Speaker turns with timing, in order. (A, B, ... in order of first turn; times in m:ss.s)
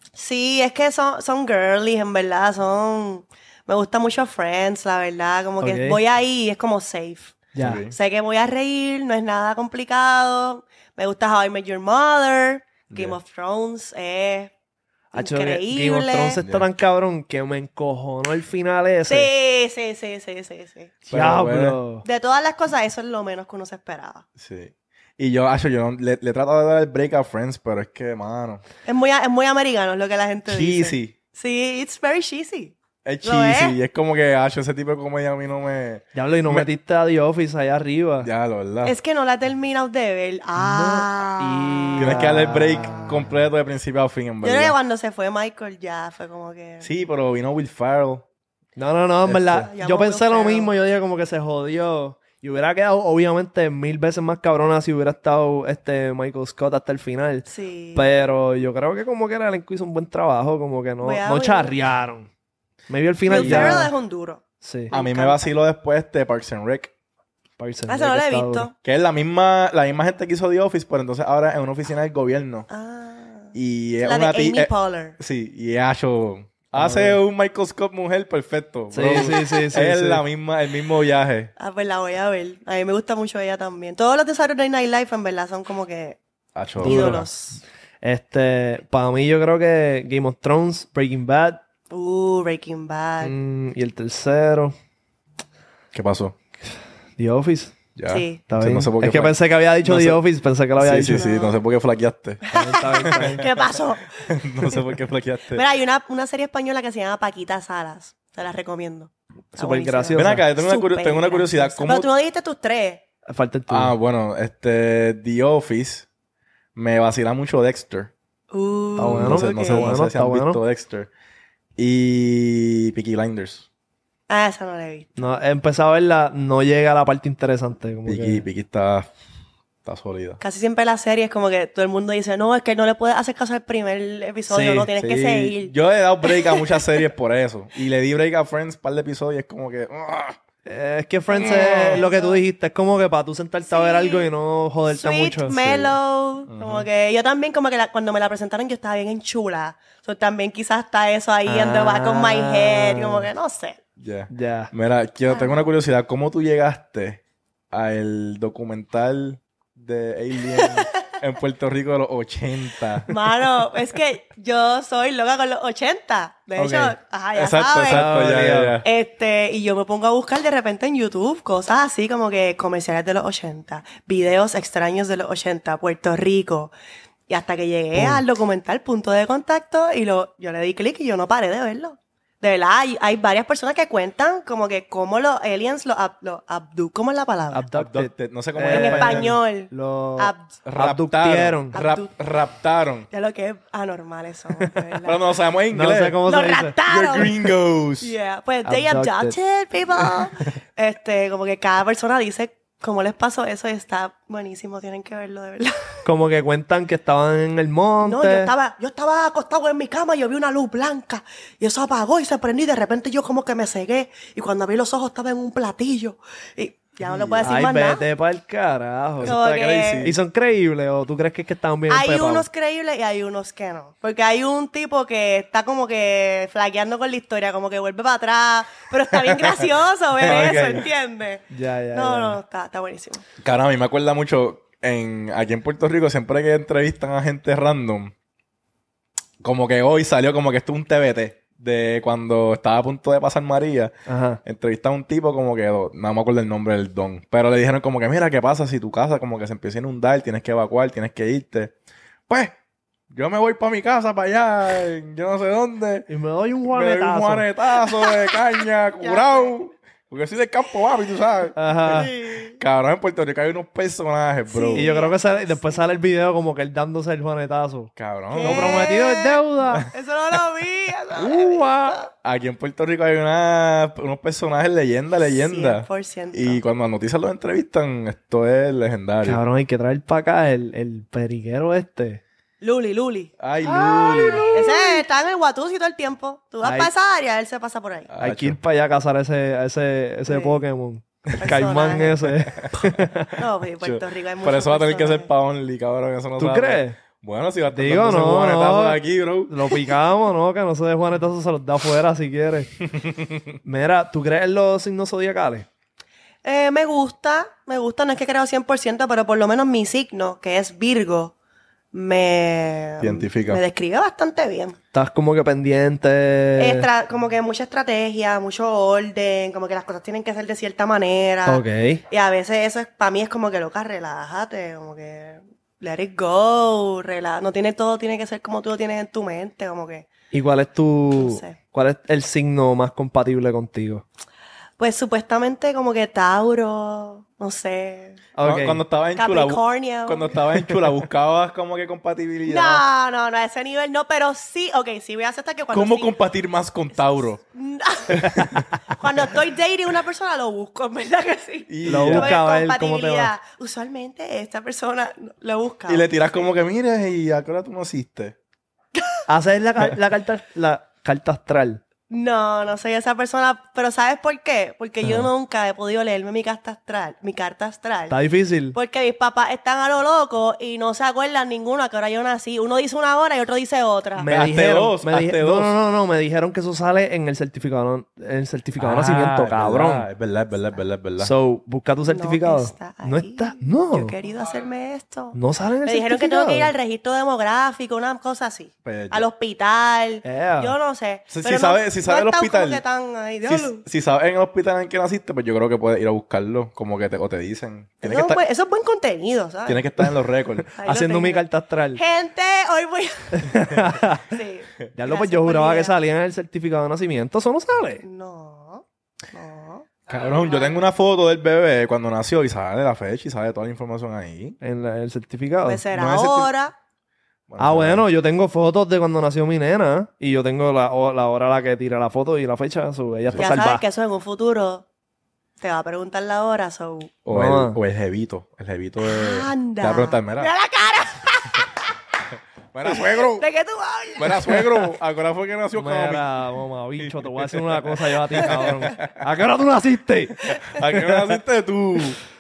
0:00.2-0:14.5 A
0:05.6-0:06.0 B
0:07.5-0:07.8 B
0:07.6-0:07.9 C
0:12.9-0:13.2 C
0:15.1-0:19.3 B
0:15.1-0:16.4 A
0:16.4-0:16.7 C
0:19.1-0:21.0 A
0:21.1-0:21.8 C
0:21.1-0:22.0 B
0:22.0-0:24.2 A
0:24.4-0:28.6 C
0:28.8-0:33.8 A
0:30.5-0:31.1 C
0:33.0-0:36.7 C
0:36.1-0:38.3 B
0:38.2-0:38.9 C
0:38.8-0:42.3 A
0:40.6-0:43.4 B
0:42.0-0:44.8 C
0:44.4-0:46.9 A
0:46.8-0:48.2 C
0:48.8-1:02.3 B
0:49.2-0:49.7 C
0:49.5-0:50.7 A
0:57.5-0:58.1 A
1:01.0-1:01.8 A
1:02.9-1:03.9 B
1:03.3-1:05.5 A
1:03.3-1:03.8 C
1:04.6-1:04.9 B
1:04.9-1:06.9 C
1:07.6-1:08.7 B
1:07.9-1:08.7 A
1:08.8-1:12.7 C
1:12.7-1:15.2 A
1:13.5-1:21.5 C
1:16.8-1:17.2 B
1:18.9-1:20.2 B
1:21.6-1:26.2 A
1:26.5-1:27.3 C
1:26.8-1:27.6 A
1:26.8-1:27.3 B
1:28.0-1:31.6 B
1:31.9-1:33.3 A
1:33.2-1:34.7 B
1:35.9-1:36.4 C
1:37.2-1:37.8 B
1:38.0-1:40.2 C
1:38.1-1:38.4 A
1:38.5-1:41.3 B
1:40.8-1:43.6 C
1:41.1-1:41.6 A
1:42.5-1:44.8 A
1:42.5-1:43.5 B
1:44.2-1:45.6 C
1:45.5-1:53.0 A
1:49.5-1:50.4 B
1:50.2-1:52.1 C
1:53.2-1:53.9 B
1:53.7-1:56.1 C
1:56.8-1:58.1 C
1:58.5-1:59.9 A
1:59.0-2:00.6 B
1:59.0-2:01.1 C
2:01.8-2:03.6 C
2:04.3-2:05.2 A
2:05.2-2:08.4 B
2:08.1-2:09.1 C
2:09.8-2:10.4 C
2:10.4-2:16.8 A
2:14.5-2:14.9 B
2:15.0-2:20.4 C
2:20.6-2:26.0 B
2:21.3-2:22.4 A
2:21.4-2:22.0 C
2:23.7-2:24.3 A
2:24.8-2:33.8 A
2:26.5-2:26.9 C
2:31.5-2:33.3 B
2:34.0-2:43.1 C
2:34.3-2:34.7 B
2:35.3-2:35.6 A
2:40.6-2:40.9 A
2:43.1-2:48.1 A
2:46.6-2:46.9 B
2:47.4-2:48.8 C
2:47.9-2:48.8 B
2:48.8-2:56.7 A
2:57.3-3:07.7 A
2:57.9-2:58.2 B
3:07.5-3:11.8 B
3:07.7-3:09.3 C
3:08.7-3:10.5 A
3:10.6-3:13.1 C
3:11.7-3:12.1 A
3:13.1-3:15.2 A
3:15.0-3:16.2 C
3:15.7-3:16.8 B
3:16.2-3:17.5 A
3:16.9-3:18.1 C
3:18.0-3:26.0 A
3:18.6-3:19.4 B
3:26.0-3:28.5 B
3:28.0-3:38.0 A
3:37.0-3:37.5 C
3:37.4-3:39.4 B
3:39.2-3:40.1 C
3:39.2-3:40.1 A
3:40.0-3:42.5 B
3:41.9-3:53.2 A
3:50.2-3:50.8 B
3:50.2-3:50.8 C
3:51.5-3:52.4 B
3:53.4-3:58.1 C
3:59.4-4:03.9 C
4:04.1-4:04.4 B
4:04.4-4:11.7 C
4:12.3-4:12.5 C
4:13.1-4:16.1 C
4:16.1-4:17.5 B
4:16.7-4:24.9 C
4:19.0-4:19.5 A
4:21.6-4:22.1 B
4:21.9-4:22.6 A
4:24.5-4:25.8 A
4:24.8-4:29.9 B
4:28.0-4:28.9 C
4:28.3-4:32.1 A
4:31.1-4:32.0 B
4:32.2-4:39.4 C
4:35.2-4:36.6 A
4:39.2-4:42.2 B
4:42.6-4:48.1 A
4:43.4-4:44.7 C
4:43.7-4:45.0 B
4:46.6-4:46.9 B
4:48.1-4:48.6 C
4:48.2-4:53.4 B
4:50.3-4:50.6 A
4:51.4-4:52.2 A
4:52.5-4:52.7 C
4:53.4-4:55.3 A
4:53.8-4:59.9 C
4:56.4-4:57.0 B
4:57.7-5:02.7 B
5:02.9-5:03.4 C
5:03.6-5:05.7 B
5:06.4-5:11.3 A
5:11.9-5:14.8 A
5:13.0-5:13.6 C
5:14.9-5:16.9 B
5:16.6-5:30.1 A
5:21.5-5:22.0 B
5:30.3-5:34.0 B
5:31.1-5:31.6 A
5:34.8-5:38.2 A
5:38.4-5:38.8 B
5:38.4-5:42.8 C
5:39.2-5:40.4 A
5:42.5-5:46.2 A
5:45.7-5:47.4 C
5:46.9-5:48.3 A
5:48.1-5:48.7 C
5:48.2-5:48.5 B
5:48.9-5:56.1 A
5:51.7-5:52.4 C
5:51.8-5:53.3 B
5:55.9-5:58.4 C
5:59.3-6:01.8 B
6:02.1-6:08.2 A
6:05.0-6:05.3 B
6:08.1-6:08.8 B
6:08.7-6:14.3 A
6:14.2-6:20.1 B
6:14.3-6:15.8 C
6:18.8-6:21.3 C
6:21.2-6:24.2 B
6:22.1-6:33.8 A
6:25.3-6:26.7 B
6:28.8-6:29.2 C
6:30.2-6:30.8 B
6:31.3-6:32.8 C
6:33.4-6:38.4 C
6:38.0-6:40.1 A
6:39.7-6:40.7 C
6:40.7-6:46.0 A
6:40.8-6:42.0 B
6:43.4-6:44.4 B
6:44.9-6:48.0 B
6:48.0-6:49.9 A
6:50.1-6:54.6 C
6:54.6-6:55.8 B
6:55.6-6:56.7 A
6:55.9-6:56.5 C
6:57.5-6:58.1 C
6:57.6-7:03.8 B
7:03.4-7:04.8 A
7:05.6-7:07.2 A
7:07.2-7:10.5 C
7:07.3-7:07.8 B
7:09.0-7:11.9 A
7:12.7-7:13.5 C
7:12.9-7:14.9 A
7:14.2-7:16.3 C
7:15.8-7:21.2 B
7:17.0-7:19.2 C
7:20.6-7:22.2 C